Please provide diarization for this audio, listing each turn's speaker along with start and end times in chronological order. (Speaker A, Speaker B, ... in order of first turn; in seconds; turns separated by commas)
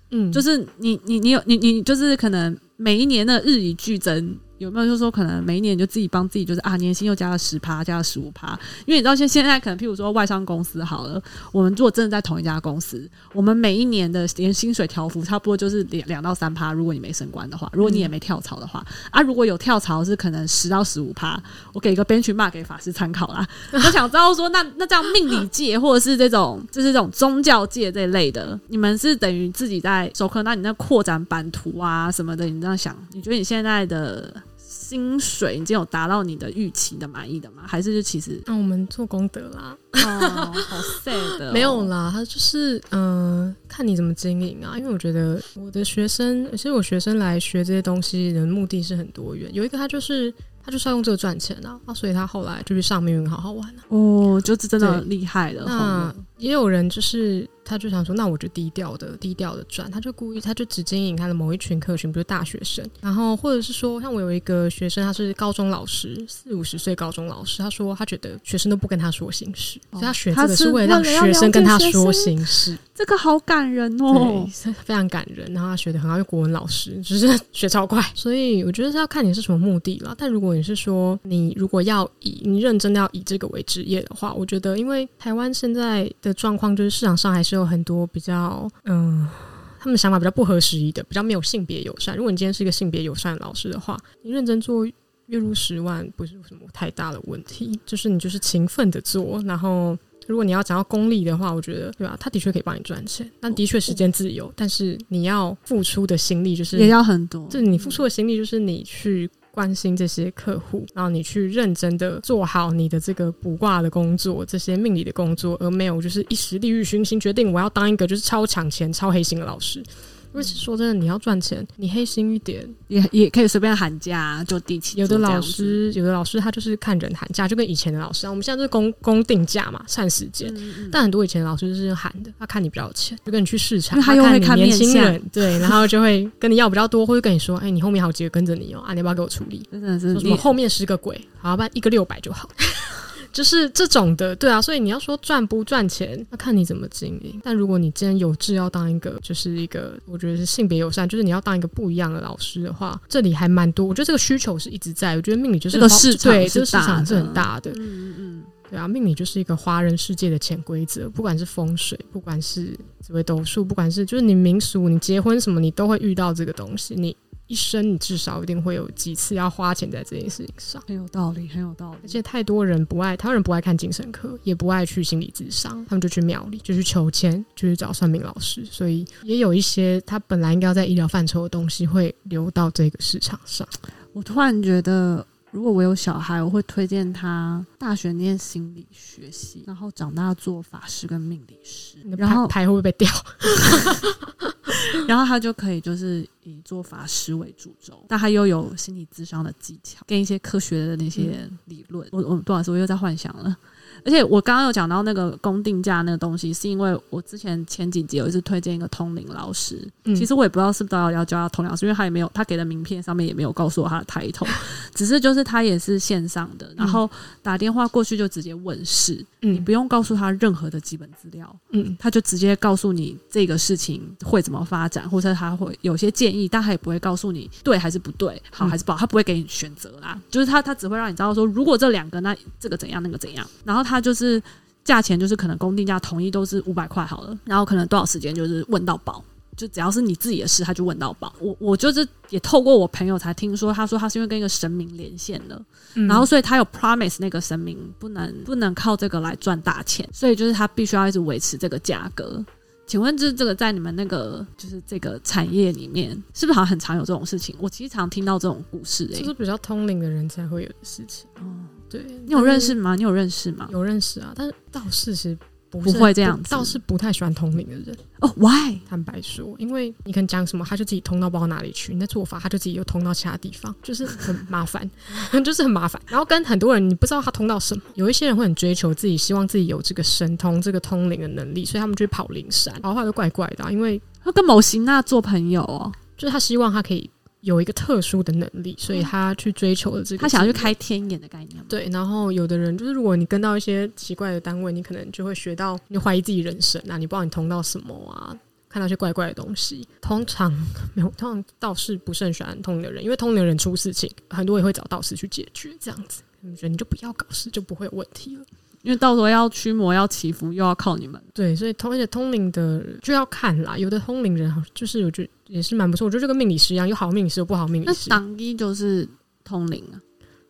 Speaker A: 0.1-0.4, Speaker B: 0.3-38.5, Speaker A: 17.8-18.1, Speaker A: 38.5-53.8, Speaker B: 40.0-41.9, Speaker B: 53.9-56.1, Speaker A: 54.8-55.0, Speaker A: 55.6-72.8, Speaker B: 69.9-74.5, Speaker A: 74.1-107.0, Speaker B: 106.7-108.0, Speaker A: 107.5-122.8, Speaker B: 122.9-125.8, Speaker A: 124.9-157.8, Speaker B: 130.4-131.0, Speaker B: 133.9-135.8, Speaker B: 139.7-140.5, Speaker B: 155.7-158.5, Speaker A: 158.7-170.8, Speaker B: 170.9-172.2, Speaker A: 172.0-183.7, Speaker B: 184.1-192.5, Speaker A: 192.0-195.0, Speaker B: 193.6-193.9, Speaker B: 194.7-259.3, Speaker A: 219.4-219.7, Speaker A: 221.7-222.0, Speaker A: 245.9-246.3, Speaker A: 259.1-261.3, Speaker B: 261.4-261.7, Speaker A: 261.9-262.8, Speaker B: 262.3-263.7, Speaker A: 263.7-268.0, Speaker B: 265.8-266.8, Speaker B: 268.2-268.8, Speaker A: 268.9-284.0, Speaker B: 284.2-286.0, Speaker A: 286.2-290.7, Speaker B: 290.2-291.8, Speaker A: 291.7-308.4, Speaker B: 308.8-311.2, Speaker A: 311.4-318.2, Speaker B: 317.9-320.0